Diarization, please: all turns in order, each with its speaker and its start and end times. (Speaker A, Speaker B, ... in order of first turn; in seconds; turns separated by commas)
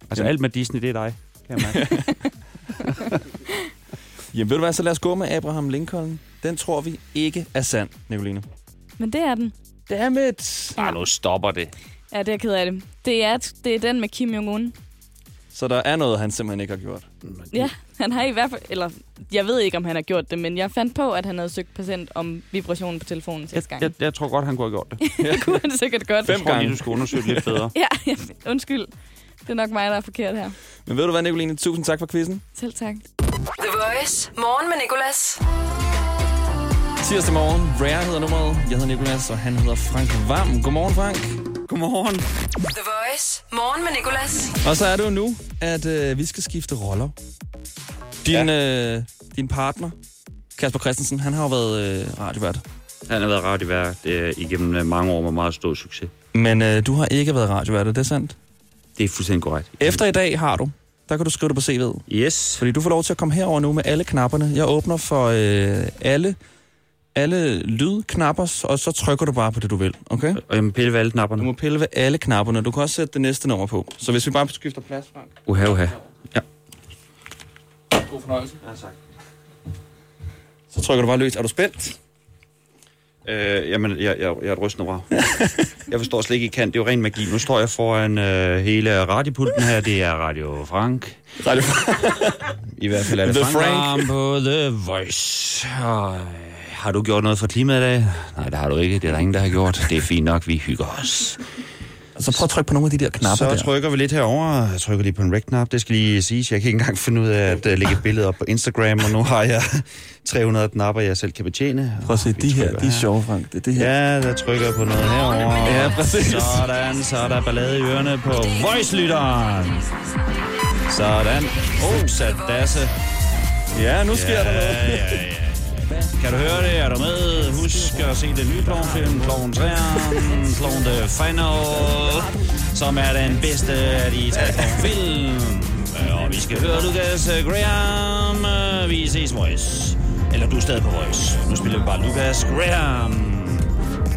Speaker A: 0.1-2.0, Speaker B: 1.6-2.0, Speaker A: 2.8-3.2, Speaker B: 4.3-8.4, Speaker C: 9.0-9.5, Speaker B: 9.9-10.8, Speaker A: 10.7-11.7, Speaker C: 12.1-14.7, Speaker B: 15.5-17.1, Speaker A: 17.2-17.7, Speaker C: 17.5-23.9, Speaker A: 23.6-25.0, Speaker C: 25.0-26.5, Speaker B: 25.2-25.6, Speaker B: 26.2-27.7, Speaker A: 26.3-27.7, Speaker C: 27.7-28.9, Speaker C: 29.4-30.6, Speaker B: 30.8-32.4, Speaker C: 32.6-33.0, Speaker D: 33.6-35.4, Speaker B: 37.0-41.4, Speaker A: 41.7-42.2, Speaker D: 42.7-44.6, Speaker B: 44.6-47.1, Speaker B: 48.2-50.0, Speaker B: 50.5-52.6, Speaker A: 53.1-56.1, Speaker B: 56.3-58.4, Speaker A: 59.0-60.0, Speaker B: 59.8-62.0, Speaker A: 62.1-62.7, Speaker B: 62.6-66.4, Speaker B: 67.1-70.4, Speaker A: 70.3-71.5, Speaker B: 71.4-75.4, Speaker A: 75.5-76.0, Speaker B: 78.0-78.6, Speaker A: 78.6-78.9, Speaker B: 80.7-82.0, Speaker A: 83.2-91.2, Speaker B: 85.2-85.6, Speaker B: 91.4-94.1, Speaker A: 92.7-101.4, Speaker B: 102.2-103.7, Speaker A: 103.2-113.1, Speaker B: 112.0-113.9, Speaker A: 113.7-119.9, Speaker D: 115.4-115.9, Speaker B: 115.6-116.7, Speaker D: 119.9-120.6, Speaker A: 120.8-122.9, Speaker D: 122.0-122.3, Speaker B: 123.7-125.3, Speaker A: 124.1-143.7